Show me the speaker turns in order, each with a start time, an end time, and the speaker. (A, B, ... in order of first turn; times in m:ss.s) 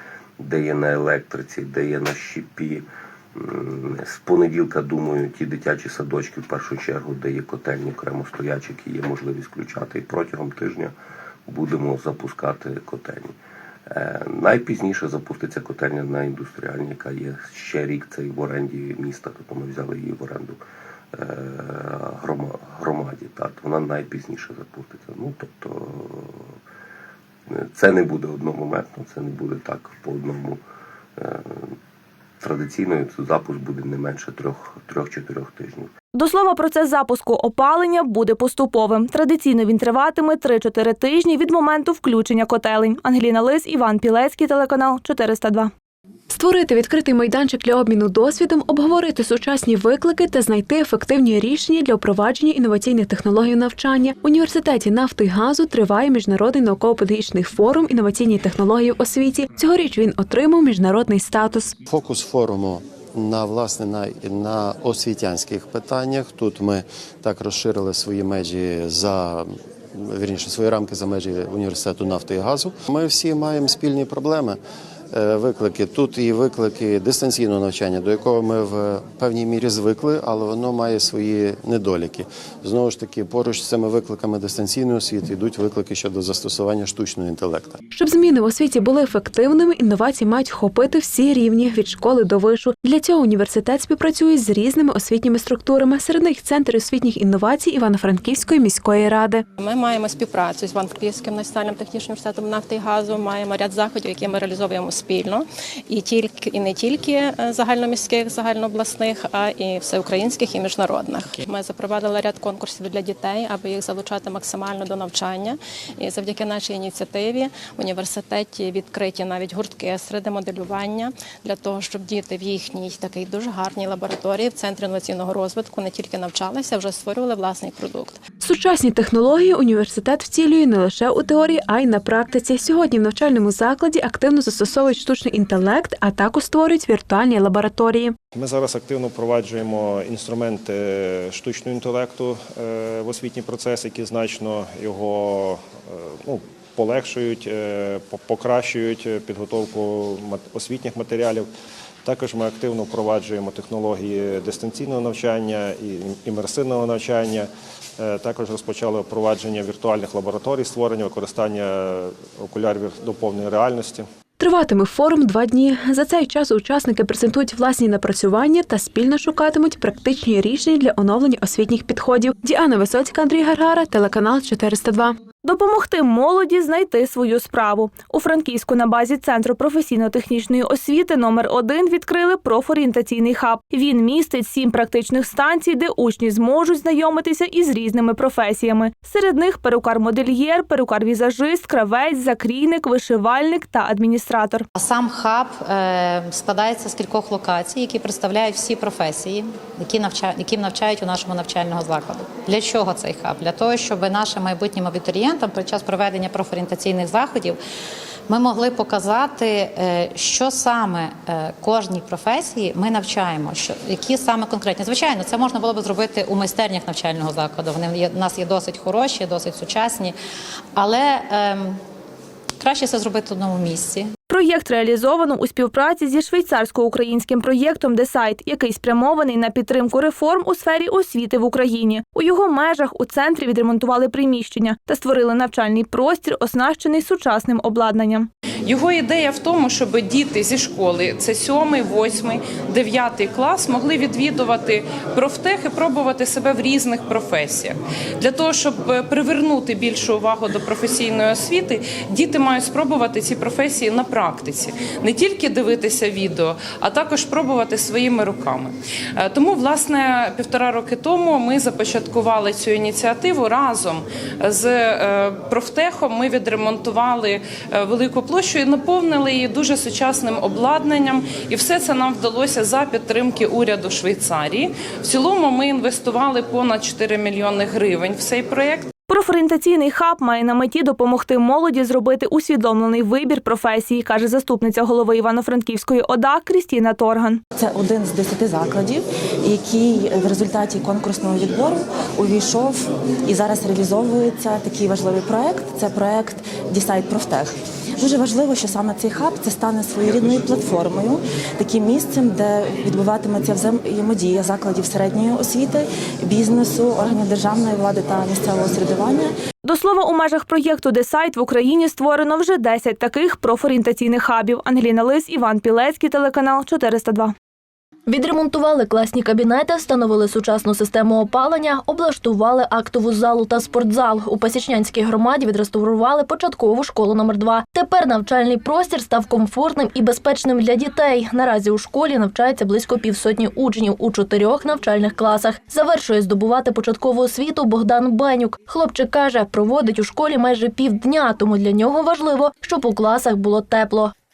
0:00.4-0:02.8 A
0:03.4-0:10.9 A
0:11.5-0:13.3 A
0:13.9-0:20.6 A
0:21.1-0:26.3 A
0:27.5-0:30.6 A
0:31.2-0:31.7 A
0:32.4-0:35.9 A
0:36.2-0:45.7 B
0:46.3-1:01.8 C
1:01.8-1:14.6 D
1:15.1-1:27.8 D
1:27.9-1:39.5 C
1:39.6-2:08.2 E
2:08.4-2:18.2 C
2:18.3-2:31.5 F
2:32.0-2:44.0 F
2:44.4-2:55.2 C
2:55.4-3:14.6 B
3:14.8-3:27.6 G
3:28.3-3:40.2 G
3:40.8-3:41.8 G
3:42.6-3:44.1 G
3:44.3-3:58.3 B
3:58.6-4:38.9 H
4:39.1-4:47.4 B
4:47.6-5:09.3 I
5:09.6-5:17.3 B
5:18.1-5:44.1 J